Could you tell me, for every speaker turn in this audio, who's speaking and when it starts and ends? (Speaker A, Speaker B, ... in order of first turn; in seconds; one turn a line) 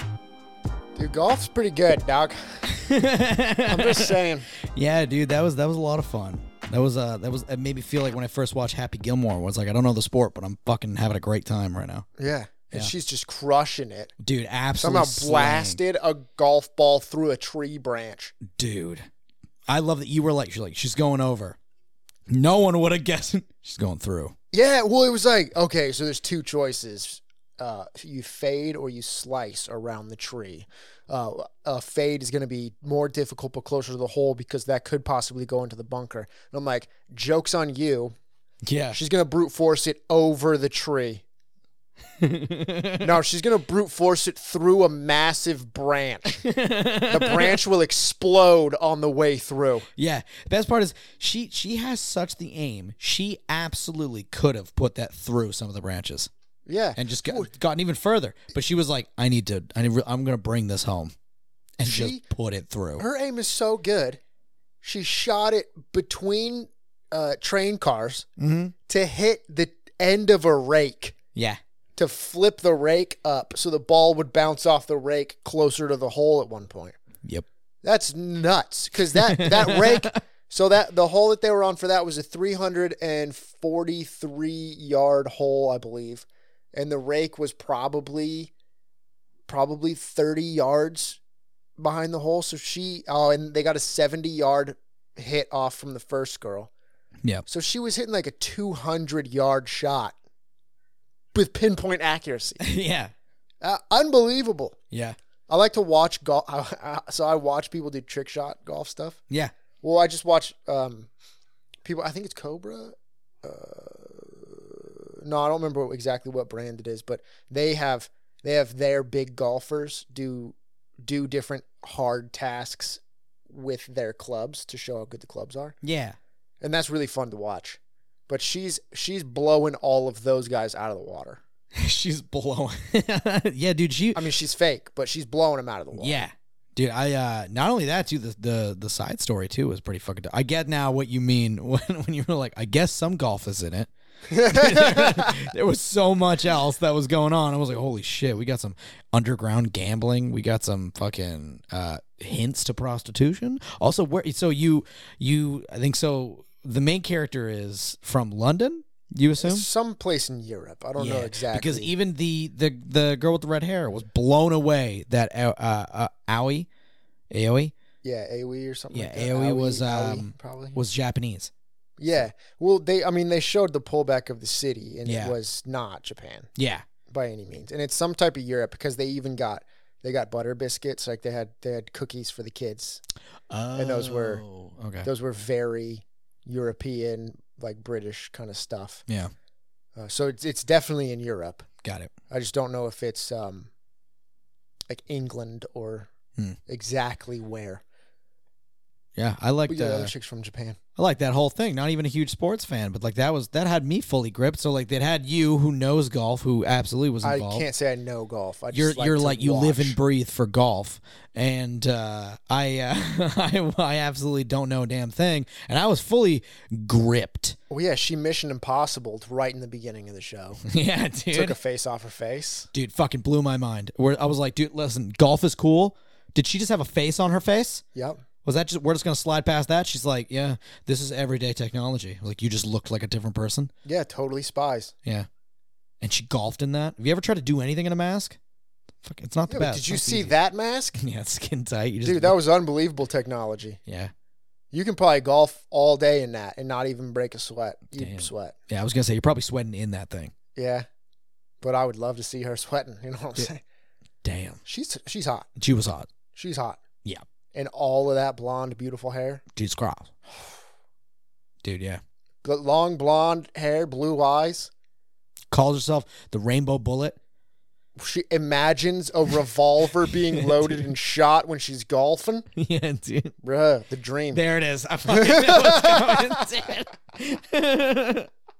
Speaker A: 1.0-2.6
Speaker B: 2.7-12.1
Speaker A: 3.6-4.5
Speaker A: 12.2-14.1
Speaker B: 14.2-15.8
Speaker A: 14.8-18.3
Speaker B: 18.4-19.1
Speaker B: 19.7-21.6
Speaker B: 22.3-24.4
Speaker A: 24.5-38.1
Speaker B: 38.6-39.0
Speaker A: 38.9-41.2
Speaker B: 42.2-43.1
Speaker A: 43.0-46.4
Speaker B: 46.3-47.6
Speaker A: 47.1-49.9
Speaker B: 50.0-56.3
Speaker A: 56.7-57.5
Speaker B: 57.0-61.1
Speaker B: 61.8-63.0
Speaker A: 61.8-62.2
Speaker A: 63.0-64.2
Speaker A: 64.8-68.3
Speaker B: 68.4-68.7
Speaker A: 68.9-71.2
Speaker B: 71.3-71.6
Speaker A: 72.0-77.0
Speaker A: 77.8-88.5
Speaker B: 79.1-80.2
Speaker A: 89.5-91.2
Speaker A: 91.8-96.7
Speaker A: 97.5-100.2
Speaker A: 101.3-102.6
Speaker B: 102.6-103.1
Speaker A: 103.6-104.8
Speaker B: 104.9-105.2
Speaker A: 105.5-109.2
Speaker A: 109.8-111.1
Speaker A: 111.8-125.8
Speaker B: 125.8-126.2
Speaker A: 126.6-131.4
Speaker B: 131.7-134.2
Speaker A: 134.2-136.2
Speaker B: 135.9-143.9
Speaker A: 144.3-145.4
Speaker B: 144.4-159.7
Speaker A: 159.4-161.9
Speaker B: 161.0-166.7
Speaker B: 167.3-167.7
Speaker A: 168.0-170.8
Speaker B: 168.9-171.5
Speaker A: 172.0-176.5
Speaker B: 175.1-175.3
Speaker B: 176.6-176.9
Speaker A: 177.1-183.0
Speaker B: 183.5-185.1
Speaker A: 183.8-184.4
Speaker A: 185.0-189.0
Speaker B: 189.1-189.3
Speaker A: 190.0-191.7
Speaker B: 191.8-192.1
Speaker A: 192.3-193.7
Speaker A: 194.9-196.1
Speaker A: 196.7-197.8
Speaker B: 199.2-200.1
Speaker A: 199.7-200.8
Speaker B: 201.0-207.7
Speaker A: 207.2-210.0
Speaker B: 208.7-217.6
Speaker A: 217.7-220.6
Speaker B: 220.7-221.6
Speaker A: 221.3-222.7
Speaker B: 222.7-227.8
Speaker A: 227.9-228.2
Speaker B: 228.4-233.7
Speaker A: 233.8-234.9
Speaker B: 236.0-238.4
Speaker B: 239.0-240.3
Speaker A: 239.5-241.0
Speaker B: 241.0-242.3
Speaker A: 242.0-243.8
Speaker B: 243.9-244.1
Speaker A: 244.7-248.6
Speaker B: 247.9-250.3
Speaker A: 250.6-250.9
Speaker A: 251.6-253.6
Speaker B: 254.2-254.6
Speaker A: 254.7-255.5
Speaker B: 255.6-256.1
Speaker A: 256.4-256.8
Speaker A: 257.5-259.4
Speaker B: 259.5-260.1
Speaker B: 261.6-262.0
Speaker A: 262.4-264.7
Speaker B: 265.5-267.2
Speaker A: 268.0-272.5
Speaker B: 270.4-270.8
Speaker B: 272.6-273.3
Speaker A: 273.4-274.4
Speaker B: 274.3-278.3
Speaker A: 275.1-276.4